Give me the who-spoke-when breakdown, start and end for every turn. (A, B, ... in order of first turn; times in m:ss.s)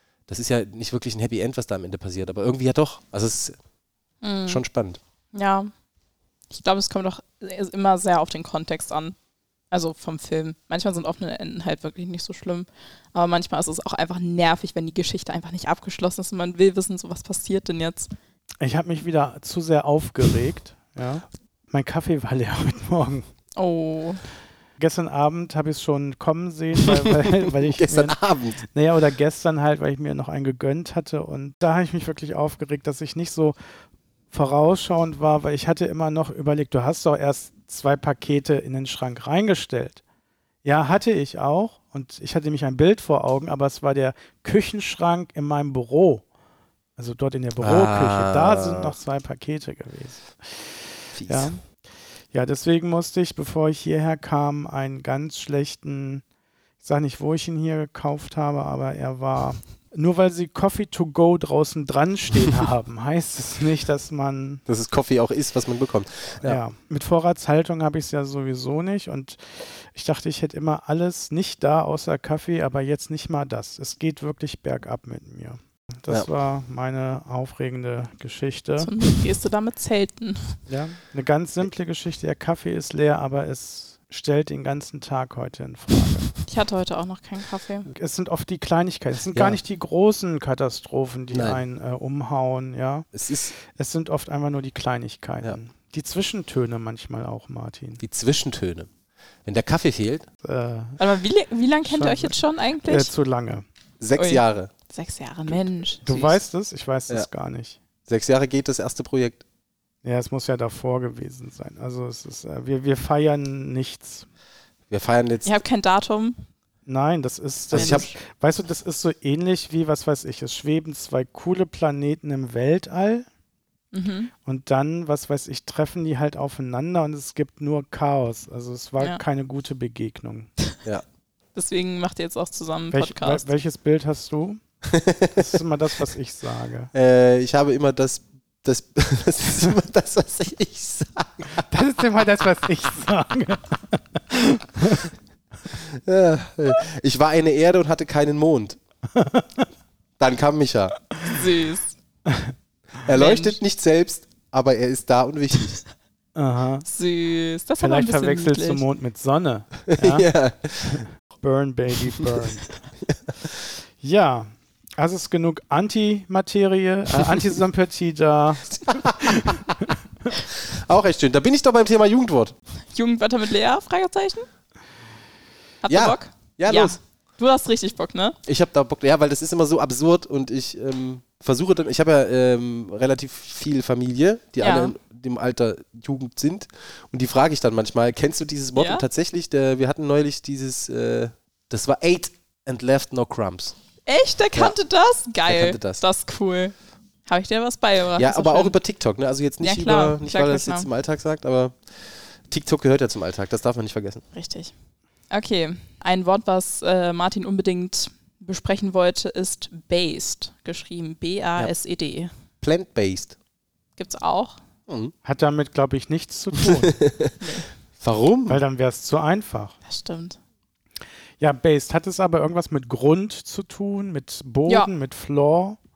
0:00.3-0:03.6 A
0:04.2-0:04.6 B
0:04.5-0:05.0 A
0:05.3-0:05.7 B
0:06.5-0:09.2 B
0:09.7-0:18.1 B
0:18.6-0:23.3 C
0:23.6-0:24.2 B
0:24.8-0:33.6 C
0:26.8-0:28.6 A
0:34.3-0:40.0 C
0:40.6-0:46.2 C
0:47.0-0:51.6 C
0:47.6-0:49.0 A
0:51.1-0:51.5 A
0:52.3-0:56.2 C
0:56.8-1:04.6 C
1:04.7-1:06.6 A
1:06.4-1:18.9 C
1:18.8-1:20.6 B
1:20.7-1:26.3 C
1:26.4-1:27.9 B
1:27.9-1:38.0 C
1:29.3-1:29.6 A
1:31.3-1:31.6 A
1:33.1-1:33.5 A
1:38.0-1:38.9 A
1:39.5-1:40.3 A
1:40.4-1:41.0 C
1:41.0-1:43.1 B
1:41.8-1:43.6 C
1:44.0-1:44.7 A
1:44.2-1:46.4 B
1:46.0-1:47.8 C
1:48.1-1:49.4 A
1:50.0-1:54.3 C
1:54.9-1:55.6 A
1:55.4-1:56.4 B
1:56.9-2:03.3 C
1:57.7-1:58.1 A
1:57.7-1:58.1 B
2:03.9-2:04.3 B
2:04.4-2:10.5 C
2:11.6-2:13.5 B
2:12.9-2:14.6 C
2:14.9-2:15.5 A
2:15.4-2:16.9 C
2:16.9-2:21.7 A
2:21.7-2:25.1 C
2:26.0-2:28.8 A
2:29.1-2:29.7 C
2:30.2-2:31.0 A
2:31.2-2:32.0 B
2:32.3-2:32.5 C
2:33.0-2:35.8 A
2:33.1-2:33.6 B
2:36.4-2:36.9 C
2:36.9-2:38.8 B
2:37.8-2:40.3 C
2:39.9-2:41.0 A
2:40.9-2:42.8 C
2:44.0-2:49.7 C
2:48.8-2:52.5 A
2:52.9-2:54.5 B
2:55.8-2:58.4 B
2:55.9-2:57.0 A
2:58.5-3:13.8 A
3:04.6-3:04.9 B
3:08.8-3:09.0 B
3:14.1-3:16.7 B
3:15.5-3:16.0 A
3:17.3-3:18.8 B
3:18.2-3:21.8 A
3:19.6-3:20.9 B
3:22.5-3:24.2 A
3:24.3-3:24.7 B
3:25.3-3:32.3 B
3:32.6-3:33.4 A
3:34.0-3:34.6 B
3:34.9-3:35.1 A
3:35.2-3:37.0 C
3:36.6-3:37.3 A
3:37.4-3:37.7 B
3:38.0-3:38.6 A
3:38.5-3:39.8 C
3:39.8-3:40.4 B
3:41.4-3:45.8 C